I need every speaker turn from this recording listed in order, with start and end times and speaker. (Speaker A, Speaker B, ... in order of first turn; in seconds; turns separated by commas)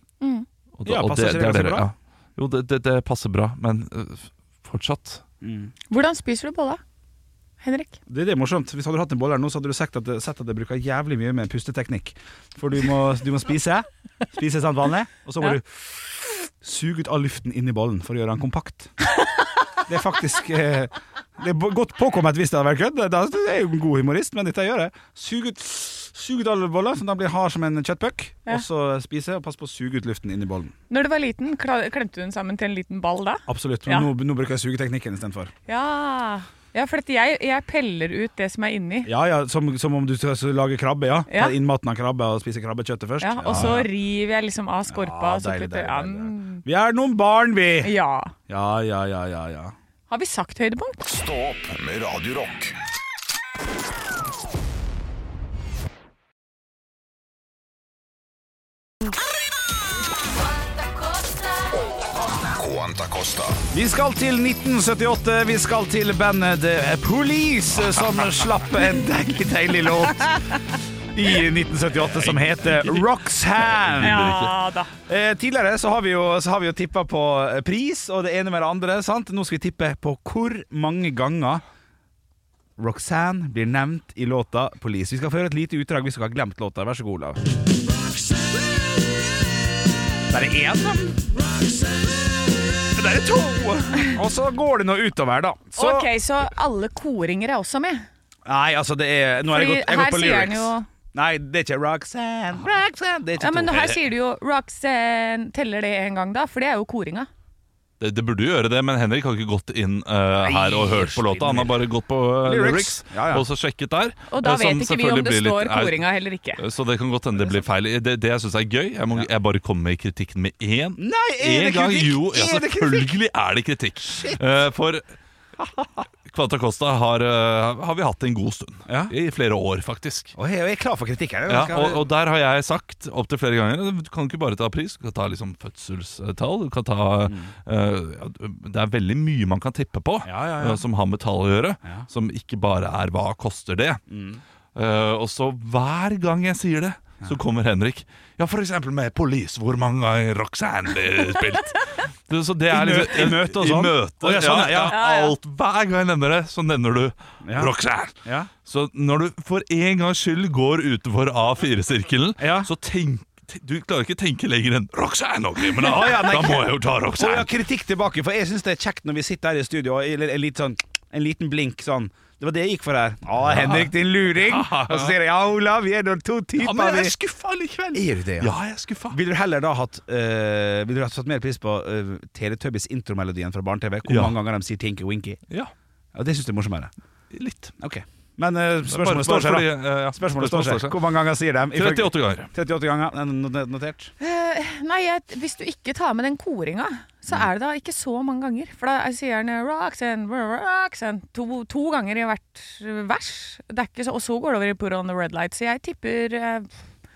Speaker A: 0.2-0.5, Speaker B: 0.8-5.2, Speaker C: 0.8-1.9, Speaker C: 5.4-5.7, Speaker A: 5.9-6.8, Speaker A: 7.6-8.0, Speaker C: 8.1-16.1, Speaker C: 16.6-18.9, Speaker C: 19.9-30.7, Speaker A: 30.9-34.1, Speaker C: 33.5-35.5, Speaker A: 35.7-39.1, Speaker C: 39.0-43.9, Speaker A: 41.3-41.6, Speaker A: 43.2-46.6, Speaker C: 44.9-47.9, Speaker A: 47.8-48.3, Speaker C: 48.5-49.7, Speaker A: 50.1-51.0, Speaker D: 51.1-52.8, Speaker D: 62.5-63.6, Speaker C: 63.7-70.6, Speaker C: 71.1-74.3, Speaker B: 72.1-74.6, Speaker A: 74.0-74.9, Speaker C: 75.1-81.6, Speaker C: 82.8-87.4, Speaker C: 90.3-91.2, Speaker C: 92.9-96.1, Speaker A: 95.8-98.1, Speaker C: 98.5-104.0, Speaker A: 99.5-100.9, Speaker A: 103.4-107.3, Speaker B: 108.0-125.1, Speaker C: 110.4-111.7, Speaker C: 112.4-113.5, Speaker A: 114.3-116.6, Speaker C: 121.0-123.1, Speaker C: 124.1-124.4, Speaker C: 125.6-125.9, Speaker B: 126.3-130.3, Speaker C: 128.9-129.1, Speaker C: 130.4-132.1, Speaker B: 131.5-144.0, Speaker C: 137.3-137.5, Speaker C: 140.2-140.8, Speaker C: 144.1-144.4, Speaker B: 144.8-167.5, Speaker C: 152.7-155.0, Speaker A: 154.9-155.4, Speaker C: 157.4-158.5, Speaker C: 162.4-162.7, Speaker C: 165.8-177.1, Speaker B: 173.4-175.2, Speaker B: 176.6-179.2, Speaker C: 177.9-178.5, Speaker C: 179.1-185.4, Speaker B: 184.1-184.4, Speaker C: 186.1-186.9, Speaker B: 187.3-187.7, Speaker C: 187.8-194.1, Speaker B: 188.9-191.0, Speaker B: 191.7-192.5, Speaker A: 194.2-206.7